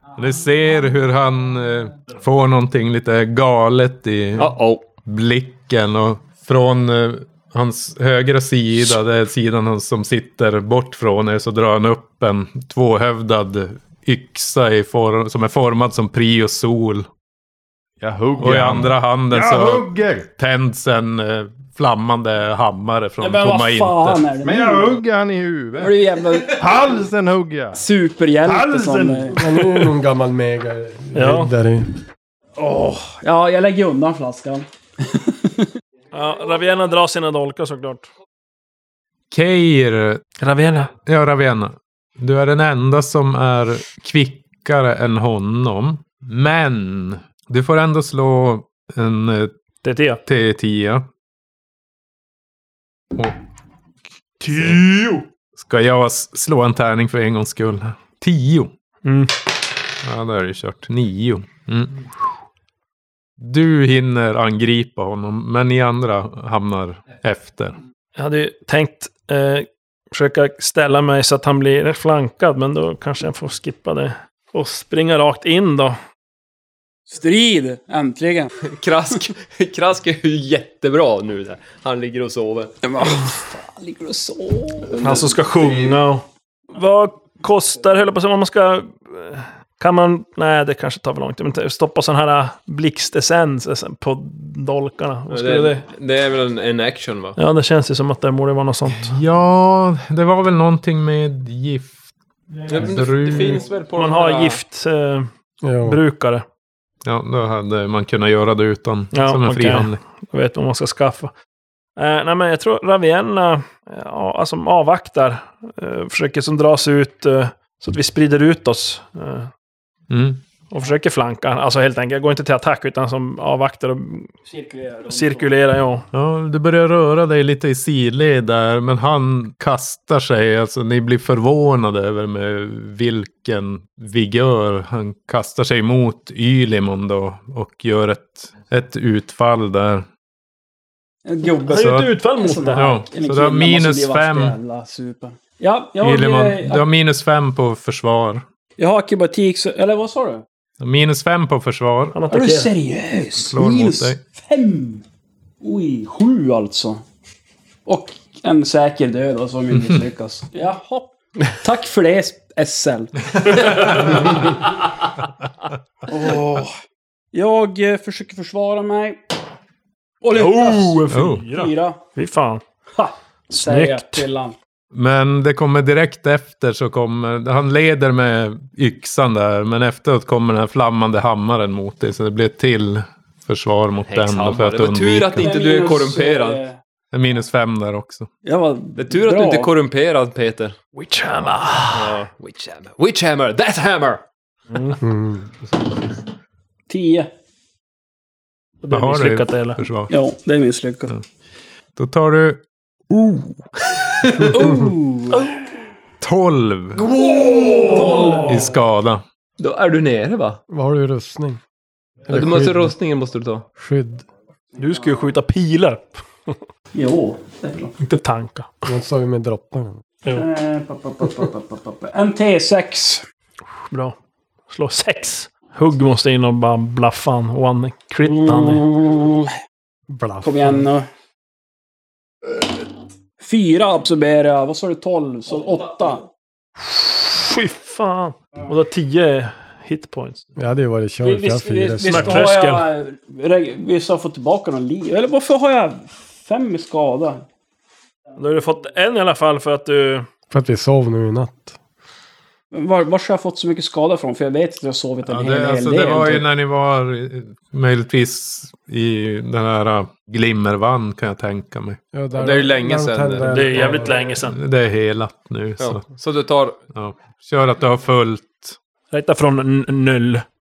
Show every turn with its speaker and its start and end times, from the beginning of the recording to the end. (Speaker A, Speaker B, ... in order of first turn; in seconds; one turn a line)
Speaker A: 0.2-17.1
Speaker B: 4.4-4.8
Speaker C: 18.0-20.3
Speaker A: 18.4-24.2
Speaker D: 23.2-25.0
Speaker C: 24.4-27.8
Speaker D: 25.8-26.7
Speaker D: 27.7-29.4
Speaker C: 28.4-29.4
Speaker E: 29.3-31.9
Speaker F: 31.1-31.5
Speaker D: 32.6-35.7
Speaker F: 36.1-38.1
Speaker A: 39.3-40.2
Speaker F: 40.4-40.9
Speaker A: 41.0-49.5
Speaker F: 49.8-50.2
Speaker A: 50.3-51.1
Speaker F: 54.4-55.2
Speaker A: 54.5-54.8
Speaker A: 55.6-58.7
Speaker F: 59.0-59.3
Speaker A: 60.0-62.1
Speaker A: 63.4-67.8
Speaker F: 68.2-76.0
Speaker D: 77.1-78.5
Speaker B: 78.6-82.8
Speaker D: 82.8-85.0
Speaker C: 85.0-86.0
Speaker F: 85.0-95.8
Speaker B: 95.3-97.4
Speaker F: 97.4-99.2
Speaker A: 99.0-102.0
Speaker B: 102.7-104.6
Speaker A: 102.8-103.6
Speaker F: 103.9-105.3
Speaker E: 105.6-106.0
Speaker F: 105.8-106.5
Speaker A: 107.0-110.0
Speaker F: 109.1-111.3
Speaker F: 112.0-119.5
Speaker A: 120.1-120.4
Speaker F: 120.7-124.3
Speaker D: 124.5-125.5
Speaker F: 125.1-126.0
Speaker A: 126.1-140.1
Speaker D: 141.3-146.8
Speaker F: 141.6-142.9
Speaker A: 141.7-142.1
Speaker A: 142.7-144.6
Speaker A: 146.0-148.4
Speaker D: 148.8-150.4
Speaker A: 150.8-152.2
Speaker F: 152.1-152.7
Speaker D: 152.3-155.0
Speaker A: 153.4-154.2
Speaker D: 155.6-157.0
Speaker D: 157.9-164.6
Speaker D: 166.1-166.7
Speaker D: 167.3-169.2
Speaker D: 170.2-172.0
Speaker F: 170.3-172.6
Speaker A: 171.1-171.5
Speaker D: 172.9-174.6
Speaker F: 173.5-174.3
Speaker A: 174.9-185.6
Speaker B: 184.1-186.6
Speaker D: 185.4-186.8
Speaker A: 187.1-188.3
Speaker D: 188.4-189.7
Speaker B: 189.0-190.8
Speaker F: 190.9-192.2
Speaker B: 191.9-194.2
Speaker F: 194.7-195.0
Speaker E: 195.0-195.4
Speaker D: 196.9-197.3
Speaker F: 198.8-199.8
Speaker A: 198.9-200.1
Speaker D: 200.1-201.1
Speaker A: 201.9-204.4
Speaker D: 204.4-205.5
Speaker E: 204.6-204.9
Speaker A: 206.2-207.1
Speaker D: 207.2-208.6
Speaker F: 207.6-208.5
Speaker A: 208.4-209.2
Speaker B: 209.6-210.6
Speaker E: 210.7-211.6
Speaker E: 212.3-212.9
Speaker B: 212.3-213.7
Speaker E: 213.8-214.2
Speaker F: 214.8-216.6
Speaker D: 216.9-217.9
Speaker F: 218.0-218.9
Speaker E: 218.8-220.0
Speaker D: 220.3-223.2
Speaker F: 223.9-224.2
Speaker F: 224.7-228.8
Speaker D: 228.2-229.6
Speaker E: 230.1-230.8
Speaker D: 230.4-231.1
Speaker D: 233.4-236.3
Speaker F: 236.8-240.4
Speaker E: 240.6-242.5
Speaker D: 241.2-247.4
Speaker F: 242.1-242.9
Speaker F: 248.4-250.3
Speaker E: 250.5-251.8
Speaker D: 252.7-256.5
Speaker A: 255.3-262.0
Speaker E: 262.1-264.2
Speaker B: 262.3-263.8
Speaker F: 263.4-264.6
Speaker A: 264.4-266.0
Speaker B: 265.8-266.8
Speaker A: 266.9-268.8
Speaker F: 269.1-270.4